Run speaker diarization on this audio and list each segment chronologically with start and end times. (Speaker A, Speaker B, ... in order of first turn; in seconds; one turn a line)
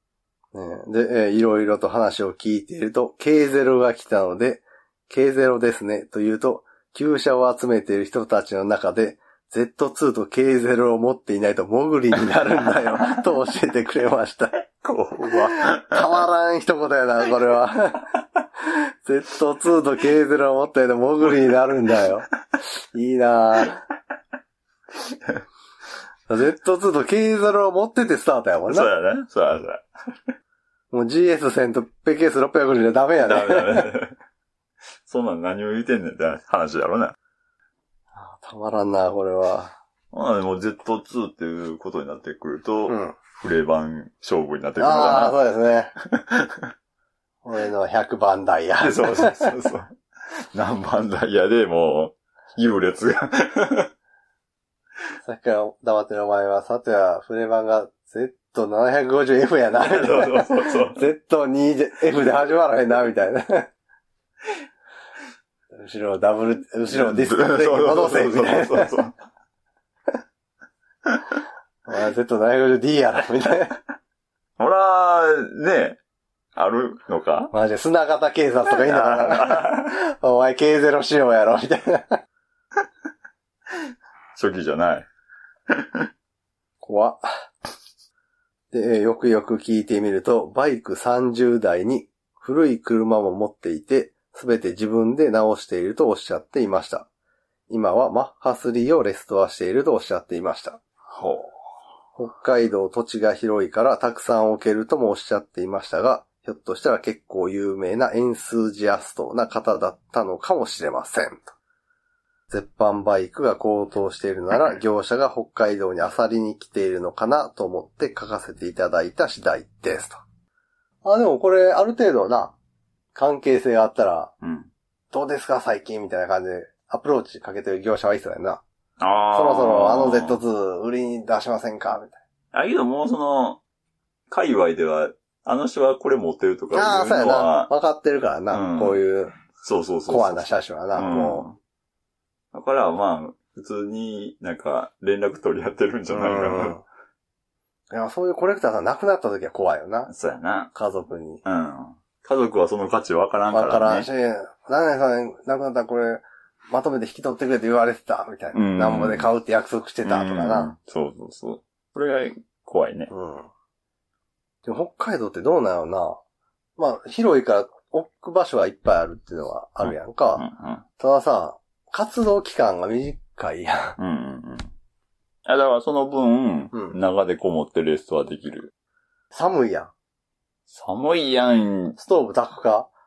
Speaker A: 0.5-14.6
Speaker B: 12.3-13.2
Speaker B: 14.8-16.2
Speaker A: 15.2-18.1
Speaker A: 18.7-23.8
Speaker B: 25.1-25.4
Speaker A: 26.3-28.9
Speaker B: 28.7-30.3
Speaker A: 30.9-33.9
Speaker B: 33.2-34.1
Speaker B: 35.0-37.1
Speaker A: 38.1-39.8
Speaker B: 40.1-45.4
Speaker A: 42.9-43.1
Speaker A: 44.8-45.9
Speaker B: 46.0-46.7
Speaker A: 47.4-49.5
Speaker B: 48.8-53.9
Speaker A: 55.2-63.7
Speaker B: 59.8-61.0
Speaker A: 65.8-68.9
Speaker B: 66.9-69.1
Speaker A: 71.9-73.8
Speaker B: 74.6-76.0
Speaker B: 76.5-77.5
Speaker A: 77.5-82.2
Speaker B: 78.7-79.9
Speaker B: 84.3-85.1
Speaker B: 85.7-86.1
Speaker A: 86.8-87.3
Speaker A: 88.7-97.1
Speaker A: 97.7-100.8
Speaker B: 101.1-101.5
Speaker A: 102.2-111.5
Speaker A: 112.5-120.2
Speaker A: 121.0-122.5
Speaker A: 123.1-124.3
Speaker B: 124.4-124.7
Speaker A: 125.1-128.6
Speaker B: 129.0-130.4
Speaker A: 129.3-132.2
Speaker B: 132.5-133.6
Speaker B: 134.3-137.7
Speaker A: 136.7-139.4
Speaker B: 138.5-141.6
Speaker A: 140.1-141.4
Speaker B: 142.5-146.8
Speaker A: 146.1-146.8
Speaker A: 147.9-150.1
Speaker B: 150.1-150.7
Speaker A: 150.7-151.4
Speaker B: 151.4-154.1
Speaker A: 153.5-160.7
Speaker B: 158.5-159.3
Speaker B: 160.0-163.1
Speaker A: 163.1-163.5
Speaker A: 164.6-166.2
Speaker A: 166.8-170.4
Speaker B: 169.8-170.8
Speaker A: 171.0-174.0
Speaker B: 174.0-174.7
Speaker B: 175.4-178.7
Speaker A: 176.7-177.0
Speaker A: 179.3-179.9
Speaker B: 180.7-182.0
Speaker A: 182.0-182.9